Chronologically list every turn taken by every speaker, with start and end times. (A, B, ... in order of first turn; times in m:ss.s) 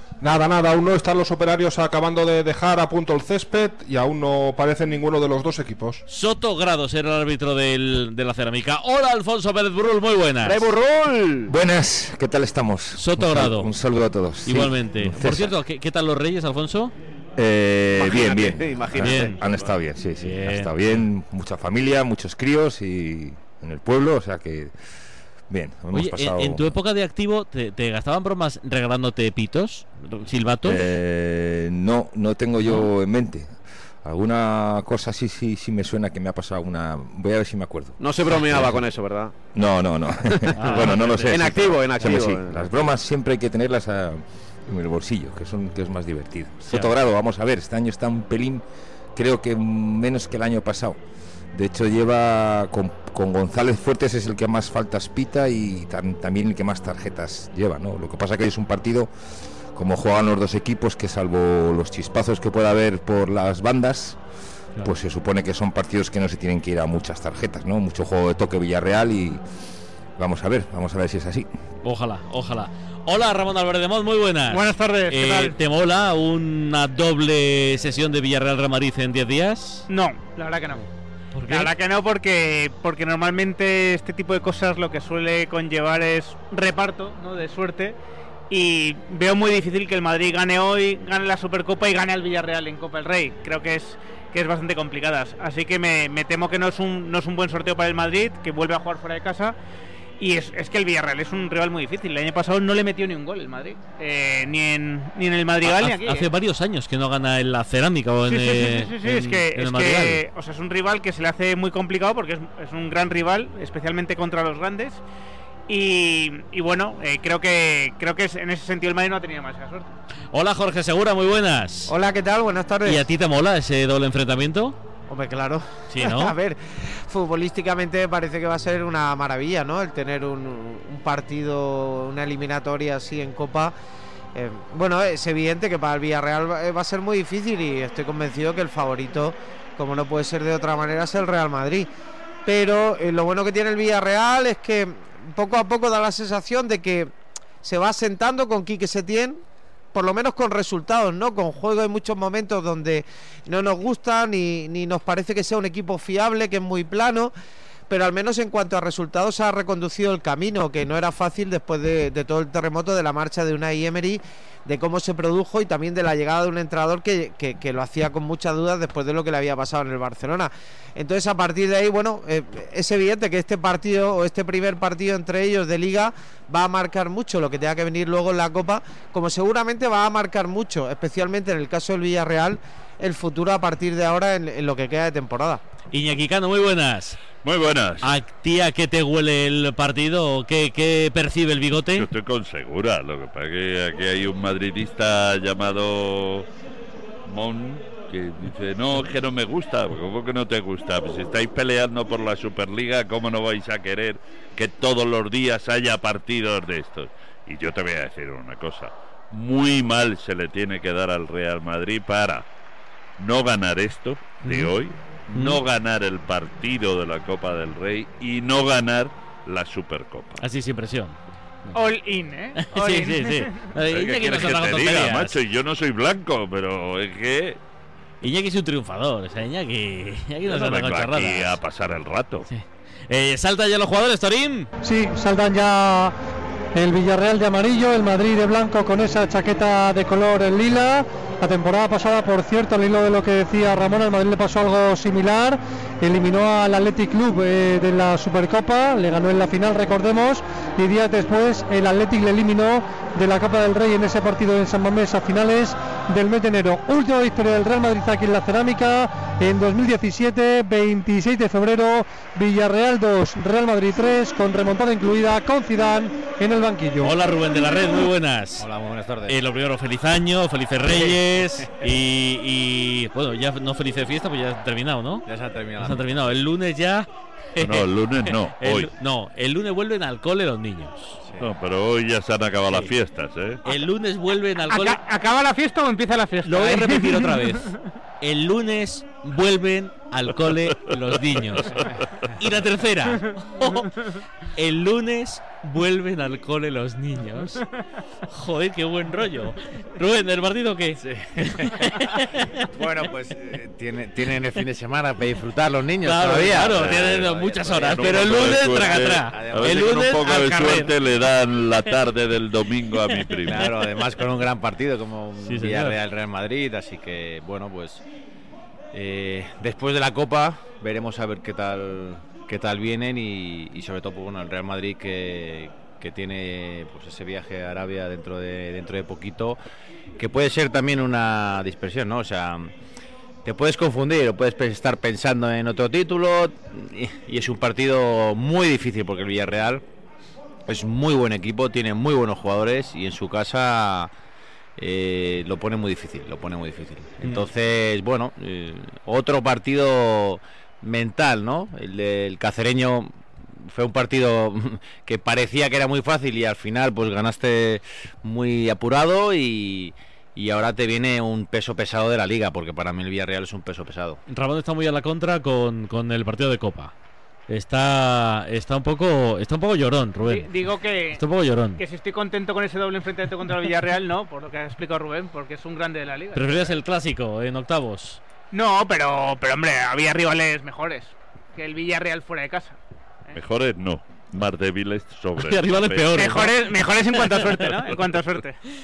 0:00.2-0:06.0 A
0:06.1-0:10.7 B
0:10.4-0:11.5 C
0:11.5-0:15.5 D
0:12.9-0:13.7 B
0:14.4-0:16.9 B
0:17.4-0:24.7 D
0:17.9-0:19.3 C
0:19.0-0:19.4 B
0:20.2-0:21.0 B
0:25.5-0:26.7 D
0:25.9-0:30.8 B
0:30.6-0:33.5 D
0:34.0-0:38.8 D
0:38.0-0:39.3 C
0:39.5-0:48.6 D
0:40.6-0:41.5 B
0:41.3-0:42.8 C
0:49.1-0:51.0 D
0:51.5-0:59.1 D
0:59.7-1:04.2 D
1:04.8-1:09.4 D
1:10.2-1:11.5 D
1:11.8-1:19.9 B
1:14.5-1:15.6 E
1:19.9-1:20.9 E
1:21.3-1:21.7 B
1:21.5-1:28.0 E
1:28.5-1:39.5 E
1:40.2-1:46.3 E
1:45.6-1:50.2 B
1:48.3-1:55.0 E
1:55.7-1:59.9 E
2:00.3-2:01.9 B
2:01.9-2:03.0 F
2:02.8-2:04.8 B
2:05.1-2:13.7 F
2:05.9-2:06.3 B
2:14.3-2:21.9 F
2:22.4-2:27.1 F
2:27.6-2:29.4 F
2:29.9-2:37.3 F
2:37.9-3:05.6 F
3:05.9-3:07.2 B
3:07.4-3:08.1 G
3:08.0-3:12.1 B
3:12.0-3:16.5 G
3:17.2-3:32.4 G
3:33.2-3:40.4 G
3:34.4-3:34.7 B
3:35.3-3:35.6 B
3:40.4-3:41.8 B
3:41.7-3:43.7 E
3:42.6-3:45.4 B
3:43.9-3:47.6 G
3:48.2-3:51.6 B
3:50.4-3:52.5 G
3:52.5-3:54.7 B
3:54.8-3:56.1 H
3:56.7-4:27.2 H
4:27.0-4:28.6 B
4:28.6-4:29.4 I
4:29.2-4:35.2 B
4:30.8-4:31.2 I
4:35.2-4:36.3 I
4:35.8-4:41.2 B
4:37.6-4:38.9 G
4:41.2-4:41.5 I
4:41.4-4:43.6 G
4:43.6-4:45.0 B
4:44.7-4:47.8 E
4:46.4-4:51.8 B
4:52.4-4:53.9 B
4:53.6-4:54.2 E
4:54.6-4:57.6 B
4:58.3-5:02.6 B
5:01.0-5:02.2 I
5:02.7-5:10.2 I
5:06.0-5:10.9 B
5:07.8-5:13.8 G
5:13.4-5:18.0 I
5:15.4-5:16.0 B
5:18.9-5:29.6 I
5:30.2-5:32.7 I
5:33.4-5:39.8 I
5:40.7-5:44.1 I
5:44.8-6:04.2 I
6:04.3-6:06.9 B
6:07.5-6:10.5 B
6:10.2-6:11.2 E
6:11.1-6:11.8 B
6:11.8-6:16.8 E
6:16.3-6:18.2 B
6:18.5-6:22.8 E
6:23.3-6:26.2 G
6:25.4-6:26.6 B
6:26.1-6:28.6 E
6:27.1-6:27.7 B